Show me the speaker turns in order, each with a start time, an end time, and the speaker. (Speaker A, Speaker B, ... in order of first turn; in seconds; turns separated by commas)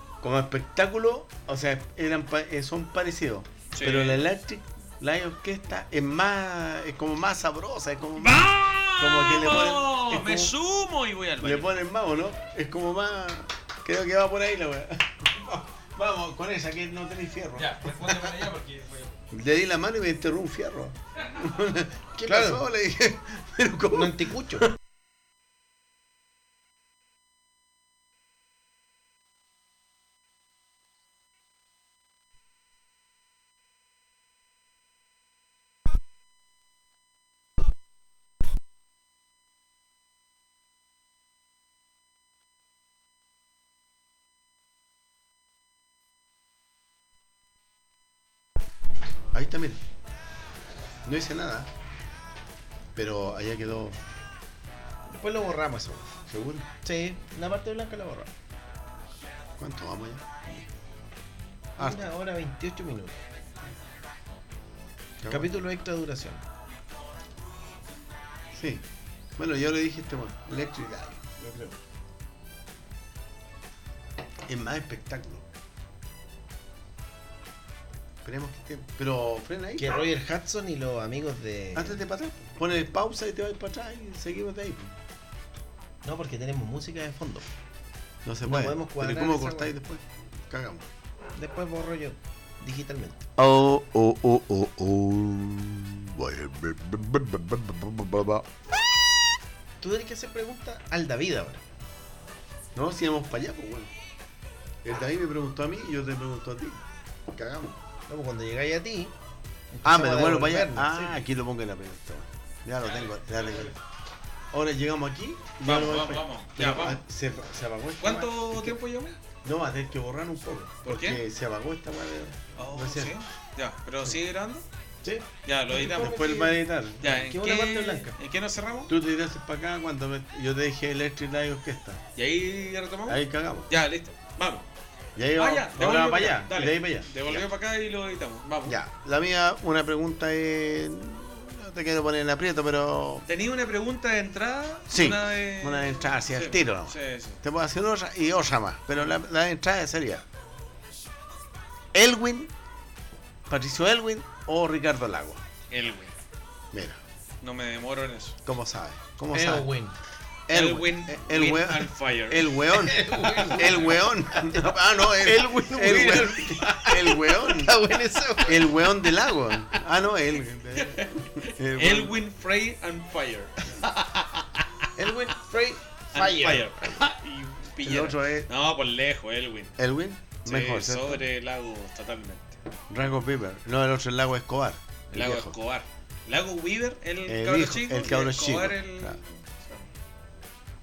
Speaker A: 0.2-10.5, Speaker B: 3.7-4.2, Speaker B: 8.2-11.7, Speaker A: 11.4-18.5, Speaker B: 17.6-19.2, Speaker A: 19.3-24.7, Speaker C: 22.2-22.6, Speaker C: 23.9-24.7, Speaker A: 49.3-49.8, Speaker A: 51.0-51.7, Speaker A: 53.0-54.0, Speaker C: 55.1-56.2, Speaker A: 56.3-56.7, Speaker C: 56.8-58.3, Speaker A: 59.6-60.7, Speaker A: 61.8-62.1, Speaker C: 61.8-63.2, Speaker A: 65.2-65.5, Speaker C: 65.3-66.4, Speaker A: 68.5-68.8, Speaker A: 69.4-71.8, Speaker A: 74.5-75.5, Speaker A: 78.2-80.0, Speaker C: 79.8-82.0, Speaker A: 81.8-85.0, Speaker C: 86.0-87.5, Speaker A: 88.2-90.9, Speaker C: 88.4-89.7, Speaker C: 91.4-93.3, Speaker A: 93.4-98.6, Speaker C: 99.8-101.6, Speaker A: 102.8-103.9, Speaker A: 104.8-107.8, Speaker C: 108.1-109.1, Speaker C: 109.7-111.2, Speaker A: 109.8-113.8, Speaker B: 112.8-113.8, Speaker A: 114.5-118.8, Speaker B: 115.6-117.0, Speaker B: 118.0-119.2, Speaker A: 119.4-123.2, Speaker B: 120.8-121.2, Speaker B: 122.6-124.7, Speaker C: 125.0-128.2, Speaker B: 125.4-126.2, Speaker A: 125.7-127.1, Speaker B: 127.0-128.9, Speaker A: 128.9-132.0, Speaker B: 132.2-134.7, Speaker A: 133.1-133.7, Speaker A: 135.2-137.5, Speaker B: 135.4-138.8, Speaker A: 138.7-143.2, Speaker B: 143.2-147.4, Speaker A: 144.9-150.2, Speaker A: 151.9-152.5, Speaker A: 153.5-155.4, Speaker B: 155.7-156.2, Speaker A: 156.7-157.0, Speaker B: 157.4-158.4, Speaker A: 158.4-159.7, Speaker C: 159.3-160.0, Speaker A: 160.5-167.8, Speaker B: 160.5-162.5, Speaker C: 162.7-168.9, Speaker B: 163.6-163.9, Speaker A: 168.4-172.2, Speaker B: 170.8-174.4, Speaker C: 175.0-177.0, Speaker B: 176.1-179.8, Speaker A: 177.8-178.5, Speaker A: 179.8-181.2, Speaker B: 180.4-182.6, Speaker A: 182.9-185.6, Speaker B: 185.1-189.9, Speaker A: 187.3-189.2